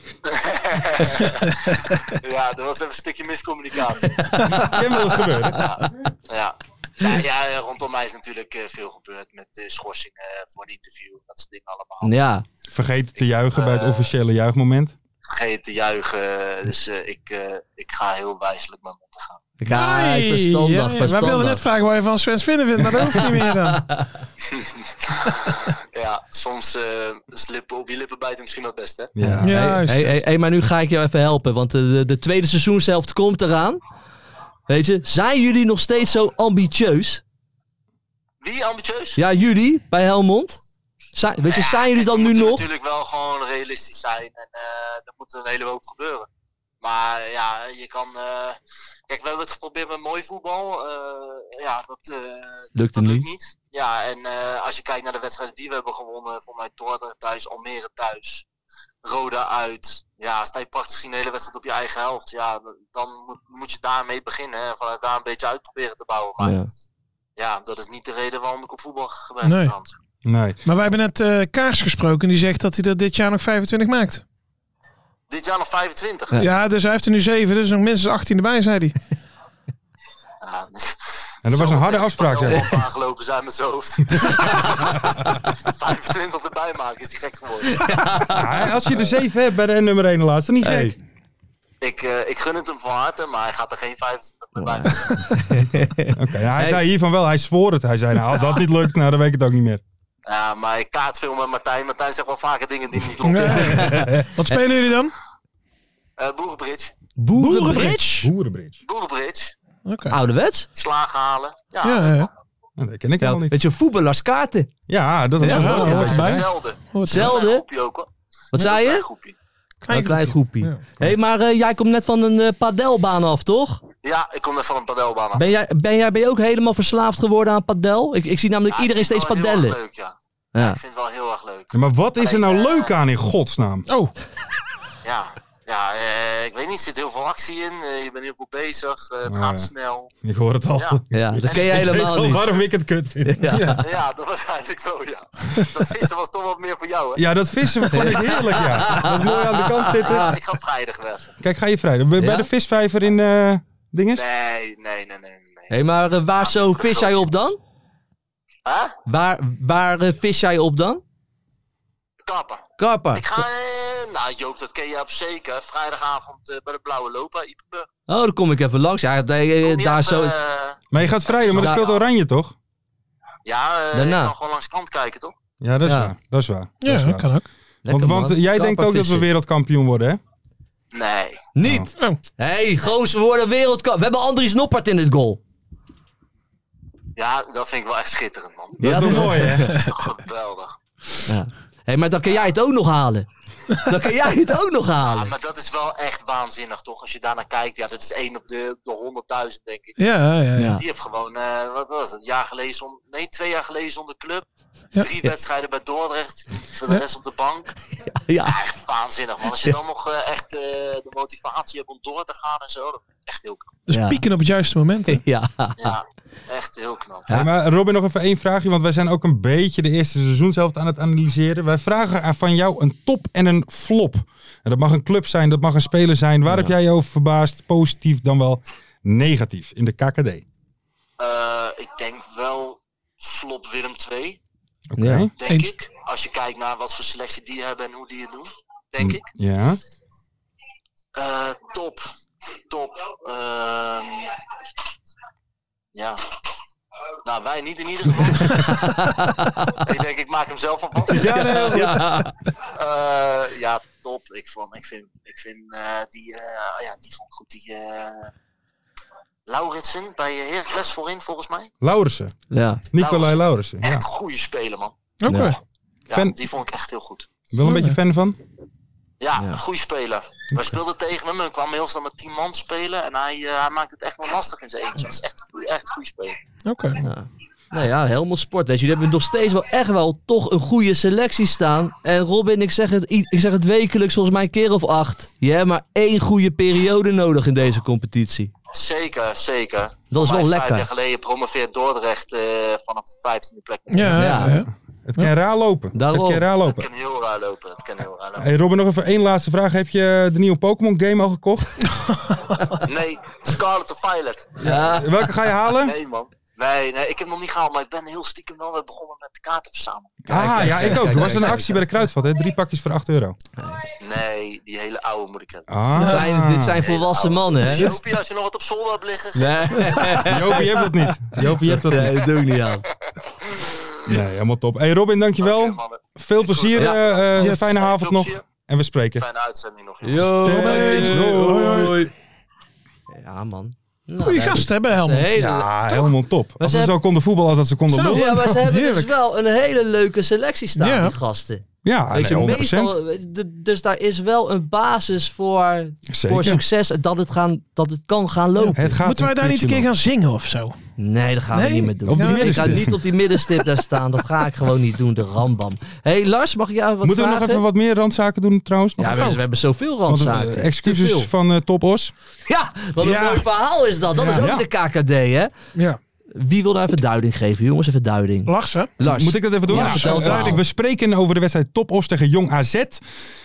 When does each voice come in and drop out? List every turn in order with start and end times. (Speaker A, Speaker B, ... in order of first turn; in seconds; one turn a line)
Speaker A: 0.3-4.3
Speaker B: 4.1-4.8
Speaker C: 4.5-5.6
Speaker A: 5.5-12.2
Speaker B: 12.0-12.4
Speaker C: 12.7-14.9
Speaker A: 13.5-14.1
Speaker A: 15.2-19.4
Speaker B: 19.6-21.6
Speaker D: 19.7-23.8
Speaker B: 23.7-24.0
Speaker A: 24.4-29.1
Speaker C: 29.1-29.8
Speaker B: 29.2-33.8
Speaker D: 29.4-30.2
Speaker B: 34.7-37.2
Speaker A: 38.4-39.2
Speaker B: 39.1-40.6
Speaker B: 41.1-42.6
Speaker A: 41.4-46.3
Speaker A: 46.8-58.4
Speaker B: 52.7-53.2
Speaker A: 59.0-66.6
Speaker B: 66.4-66.7
Speaker A: 67.4-70.0
Speaker D: 69.4-69.7
Speaker C: 70.2-70.6
Speaker D: 70.6-74.2
Speaker A: 75.3-76.4
Speaker D: 76.4-79.0
Speaker A: 80.4-88.0
Speaker C: 81.4-82.8
Speaker B: 82.5-82.8
Speaker B: 84.3-84.6
Speaker B: 87.8-88.4
Speaker C: 88.3-91.0
Speaker B: 90.6-90.9
Speaker A: 91.8-95.2
Speaker B: 94.7-96.8
Speaker C: 96.1-99.8
Speaker A: 100.2-103.8
Speaker D: 103.2-105.1
Speaker B: 103.5-104.6
Speaker C: 103.9-104.2
Speaker A: 106.2-106.9
Speaker B: 107.2-108.3
Speaker D: 107.3-108.2
Speaker C: 108.2-108.8
Speaker A: 108.8-109.5
Speaker D: 109.8-110.2
Speaker B: 110.1-110.7
Speaker A: 110.7-112.3
Speaker D: 111.8-112.3
Speaker C: 112.8-113.5
Speaker B: 113.2-114.7
Speaker C: 114.9-116.5
Speaker B: 115.4-116.1
Speaker D: 115.4-117.3
Speaker A: 115.8-119.3
Speaker B: 117.0-117.6
Speaker B: 118.5-119.0
Speaker D: 119.8-120.8
Speaker B: 119.9-123.8
Speaker A: 124.0-125.5
Speaker B: 125.3-129.8
Speaker A: 128.7-132.9
Speaker C: 131.7-133.9
Speaker D: 133.9-134.1
Speaker A: 135.0-140.1
Speaker C: 139.3-143.6
Speaker A: 140.8-142.1
Speaker B: 141.1-142.4
Speaker B: 143.2-143.8
Speaker D: 143.5-143.8
Speaker A: 143.8-147.2
Speaker C: 147.2-150.3
Speaker B: 147.9-150.4
Speaker A: 149.9-151.3
Speaker C: 151.4-154.2
Speaker B: 152.2-152.5
Speaker A: 154.1-155.7
Speaker B: 155.7-157.6
Speaker A: 156.4-157.3
Speaker A: 158.7-158.9
Speaker B: 159.1-161.0
Speaker A: 162.2-167.9
Speaker B: 162.8-163.4
Speaker B: 168.1-170.3
Speaker A: 169.6-172.1
Speaker C: 170.9-172.6
Speaker B: 171.5-171.8
Speaker A: 173.4-175.3
Speaker B: 173.9-174.3
Speaker C: 175.6-177.3
Speaker B: 175.8-176.1
Speaker D: 176.8-177.5
Speaker B: 177.8-179.3
Speaker C: 177.9-180.2
Speaker A: 180.9-181.5
Speaker B: 181.6-185.4
Speaker C: 181.6-181.9
Speaker A: 187.2-189.0
Speaker C: 188.8-189.7
Speaker B: 188.8-189.8
Speaker D: 189.2-189.9
Speaker A: 189.7-190.8
Speaker B: 191.3-195.3
Speaker A: 192.2-192.5
Speaker A: 195.0-200.0
Speaker D: 200.0-200.8
Speaker B: 200.5-200.8
Speaker A: 200.8-204.4
Speaker A: 205.0-207.7
Speaker B: 208.3-208.6
Speaker A: 208.4-213.7
Speaker D: 213.9-215.2
Speaker B: 213.9-214.2
Speaker B: 215.1-215.9
Speaker A: 215.8-217.3
Speaker C: 217.3-230.4
Speaker B: 226.5-226.7
Speaker A: 231.2-234.4
Speaker C: 234.9-235.3
Speaker B: 235.0-235.3
Speaker A: 235.4-239.2
Speaker C: 239.0-239.8
Speaker A: 241.2-242.0
Speaker A: 242.7-244.4
Speaker A: 245.9-246.2
Speaker A: 247.2-248.9
Speaker B: 248.6-249.7
Speaker A: 249.8-251.3
Speaker C: 251.1-252.0
Speaker D: 251.1-252.0
Speaker B: 251.6-252.3
Speaker A: 252.6-258.3
Speaker A: 259.5-261.7
Speaker C: 261.8-262.3
Speaker B: 262.5-262.8
Speaker C: 262.9-264.0
Speaker A: 262.9-264.9
Speaker D: 265.2-265.6
Speaker B: 265.3-265.6
Speaker A: 266.1-267.3
Speaker C: 266.1-266.4
Speaker C: 267.5-268.4
Speaker D: 267.6-267.9
Speaker A: 269.2-276.4
Speaker B: 269.4-269.6
Speaker D: 276.6-277.0
Speaker B: 277.0-288.5
Speaker A: 288.7-294.4
Speaker B: 290.1-290.9
Speaker D: 293.9-295.3
Speaker B: 294.1-294.6
Speaker C: 294.5-296.9
Speaker B: 295.9-296.4
Speaker A: 296.6-298.5
Speaker C: 298.4-301.9
Speaker A: 302.8-304.7
Speaker C: 304.6-306.0
Speaker B: 304.6-305.3
Speaker A: 305.7-310.2
Speaker C: 310.2-313.4
Speaker B: 310.3-311.8
Speaker A: 314.0-315.6
Speaker C: 315.7-316.9
Speaker B: 316.0-317.9
Speaker A: 316.8-320.1
Speaker B: 319.3-320.6
Speaker C: 320.2-322.3
Speaker B: 321.6-322.8
Speaker A: 323.2-324.1
Speaker C: 324.1-329.2
Speaker A: 325.4-328.4
Speaker B: 326.7-327.0
Speaker D: 327.4-327.7
Speaker A: 329.1-330.5
Speaker B: 330.0-332.1
Speaker C: 330.4-332.1
Speaker D: 330.4-332.0
Speaker B: 333.1-336.1
Speaker D: 334.2-335.4
Speaker C: 335.3-338.7
Speaker B: 336.6-336.9
Speaker D: 337.9-339.1
Speaker B: 338.1-348.8
Speaker D: 340.8-341.1
Speaker C: 341.8-343.0
Speaker C: 346.1-346.6
Speaker D: 348.6-350.8
Speaker C: 348.7-349.9
Speaker B: 351.0-357.6
Speaker D: 351.5-353.6
Speaker C: 352.0-353.0
Speaker C: 357.0-359.3
Speaker B: 359.0-361.3
Speaker D: 359.1-359.4
Speaker C: 360.1-362.1
Speaker B: 362.5-365.5
Speaker D: 363.0-363.5
Speaker D: 364.1-364.5
Speaker C: 364.3-364.6
Speaker B: 366.3-370.6
Speaker D: 368.4-368.9
Speaker C: 369.0-373.0
Speaker D: 369.7-370.6